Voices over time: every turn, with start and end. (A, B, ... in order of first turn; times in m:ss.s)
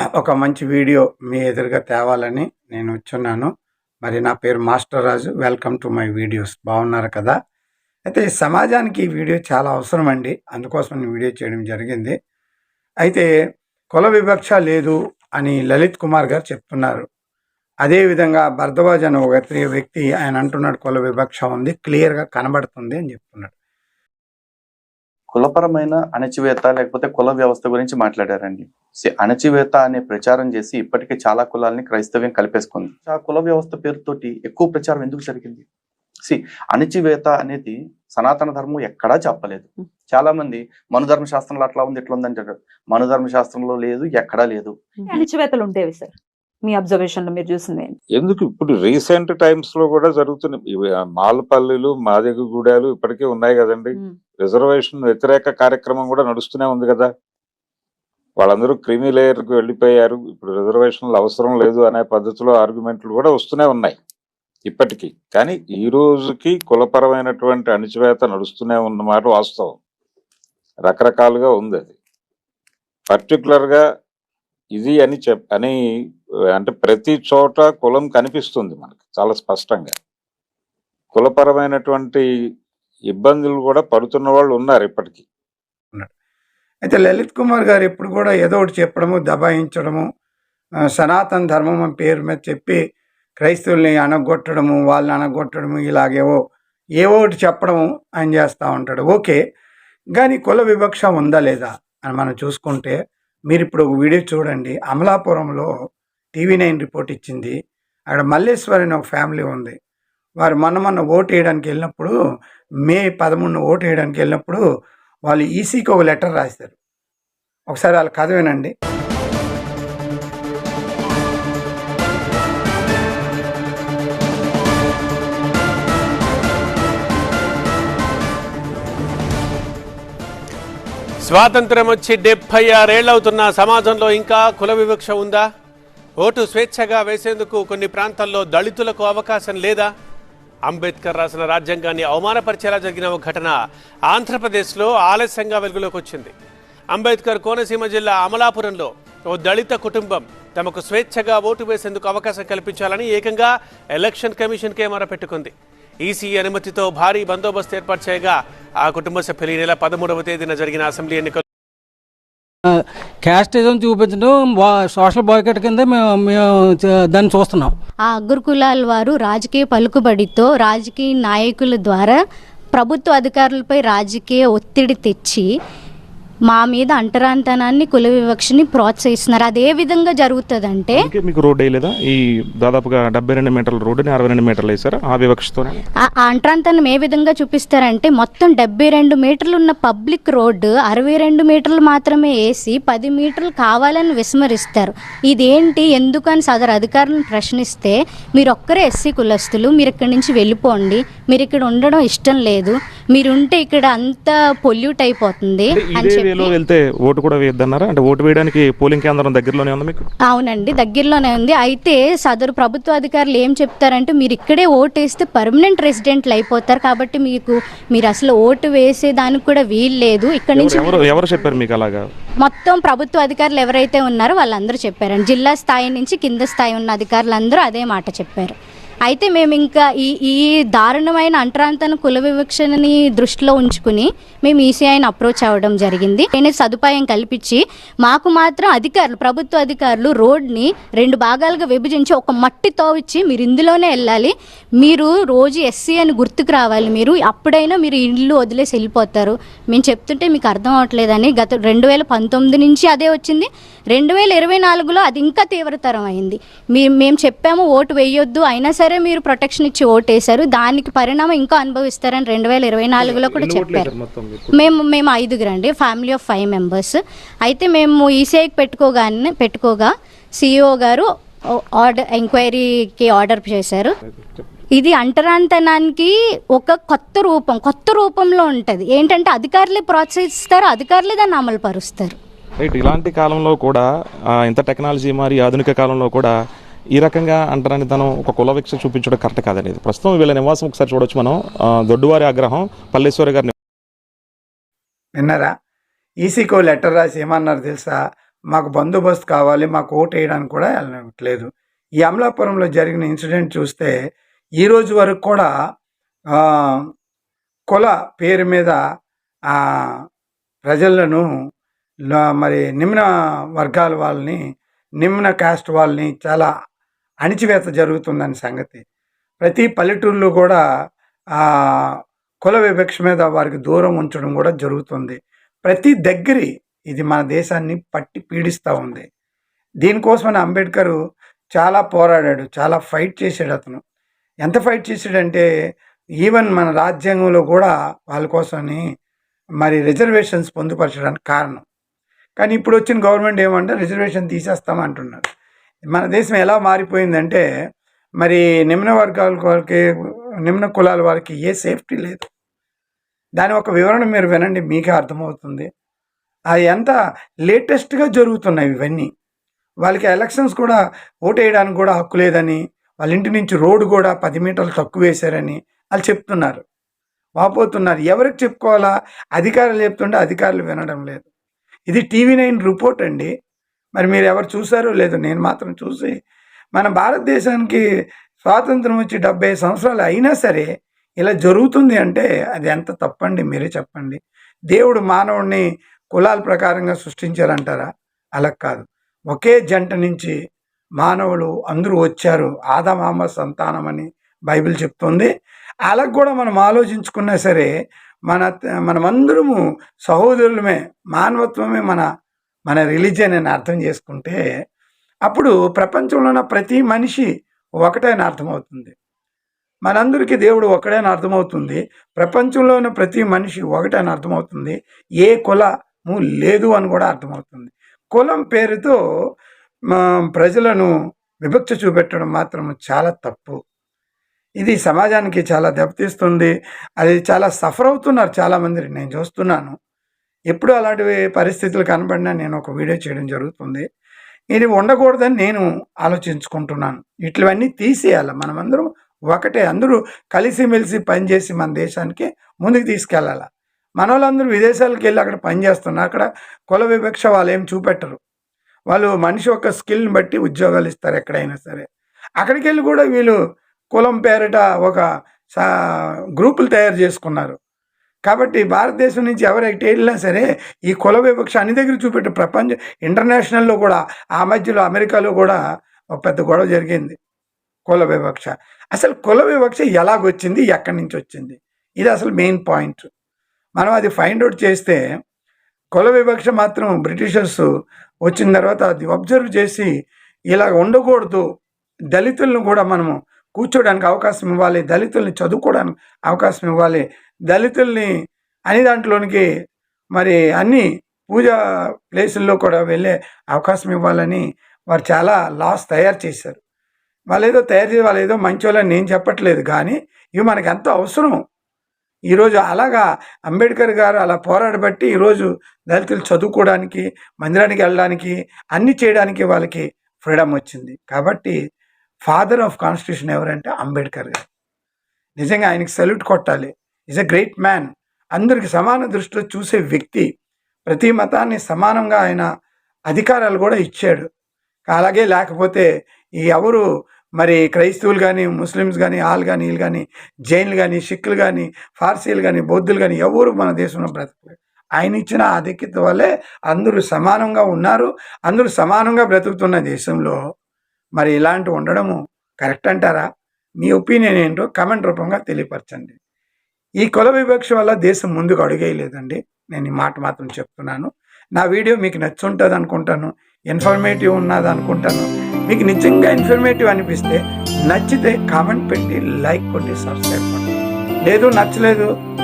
0:00.2-0:03.5 A
0:04.0-0:07.4 A
0:08.0-0:12.2 A
0:13.9-0:17.0 A
0:17.8-0:23.5 A
0:25.3-0:35.6 B
0:36.3-0:44.8 B
0:45.1-0:46.1 C
0:46.7-0:47.8 C
0:48.1-0:57.1 D
0:58.4-1:04.0 D
1:04.6-1:09.8 D
1:10.8-1:11.9 D
1:13.1-1:13.8 D
1:14.7-1:15.8 D
1:16.5-1:19.9 D
1:21.1-1:22.2 D
1:23.1-1:25.2 D
1:26.8-1:30.1 A
1:31.0-1:32.8 A
1:33.4-1:36.4 A
1:37.0-1:39.4 A
1:40.1-1:43.0 A
1:43.5-1:45.7 A
1:46.3-1:47.5 A
1:48.1-1:49.8 A
1:50.4-1:52.1 A
1:52.8-1:54.6 A
1:55.3-1:56.7 A
1:57.7-1:58.7 A
2:11.2-2:15.4 E
2:16.2-2:19.9 E
2:20.7-2:23.6 E
2:24.1-2:26.3 E
2:26.9-2:41.4 E
2:43.2-2:46.5 F
2:47.0-2:47.7 F
2:48.1-2:52.2 G
2:52.7-2:55.5 G
2:56.5-3:01.0 G
3:01.0-3:05.8 H
3:06.2-3:26.5 G
3:25.7-3:30.0 H
3:30.3-3:41.5 G
3:40.6-3:42.0 H
3:42.4-3:48.5 G
3:49.1-4:23.9 G
4:23.0-4:24.7 H
4:24.5-4:31.1 G
4:31.8-4:33.9 G
4:34.1-4:34.5 H
4:34.7-4:42.2 G
4:42.6-4:43.8 H
4:44.4-4:46.3 H
4:46.9-4:53.5 H
4:55.2-4:55.5 A
4:56.2-4:58.0 A
4:58.5-5:01.5 A
5:02.0-5:03.9 A
5:04.6-5:05.5 A
5:06.4-5:06.8 A
5:07.7-5:08.8 A
5:09.5-5:09.9 A
5:10.6-5:11.3 A
5:12.1-5:14.4 A
5:15.0-5:16.5 A
5:17.2-5:18.8 A
5:19.4-5:20.6 A
5:21.4-5:21.7 A
5:22.4-5:29.1 A
5:29.8-5:31.0 A
5:31.5-5:33.8 A
5:34.4-5:35.4 A
5:36.2-5:38.8 A
5:39.6-5:41.6 A
5:42.4-5:45.3 A
5:45.9-5:47.4 A
5:48.2-5:49.8 A
5:50.4-5:52.2 A
5:53.4-5:55.7 A
5:56.5-5:56.9 A
5:57.5-5:59.1 A
5:59.8-6:06.6 A
6:07.4-6:11.2 A
6:11.9-6:13.3 A
6:14.0-6:16.1 A
6:16.7-6:17.8 A
6:18.4-6:20.7 A
6:21.2-6:30.3 A
6:31.0-6:35.3 A
6:35.9-6:37.7 A
6:38.3-6:42.0 A
6:42.7-6:44.4 A
6:45.2-6:47.3 A
6:47.8-6:48.9 A
6:49.8-6:59.0 A
6:59.9-7:00.9 A
7:01.4-7:03.6 A
7:04.6-7:09.7 A
7:10.5-7:13.8 A
7:14.5-7:23.5 A
7:24.0-7:28.2 A
7:28.9-7:31.8 A
7:32.4-7:33.4 A
7:33.9-7:35.0 A
7:36.4-7:37.6 A
7:38.2-7:45.6 A
7:46.2-7:47.2 A
7:47.9-7:53.1 A
7:53.8-7:55.0 A
7:55.9-7:57.7 A
7:58.2-7:59.9 A
8:00.5-8:01.4 A
8:02.1-8:08.1 A
8:08.7-8:09.4 A
8:10.1-8:11.5 A
8:12.1-8:16.6 A
8:17.3-8:21.4 A
8:22.3-8:31.6 A
8:32.2-8:34.4 A
8:35.4-8:40.3 A
8:40.9-8:42.5 A
8:43.1-8:44.3 A
8:44.9-8:45.9 A
8:46.4-8:46.8 A
8:47.4-9:00.4 A
9:01.2-9:03.2 A
9:03.8-9:06.2 A
9:07.0-9:20.7 A
9:21.3-9:22.1 A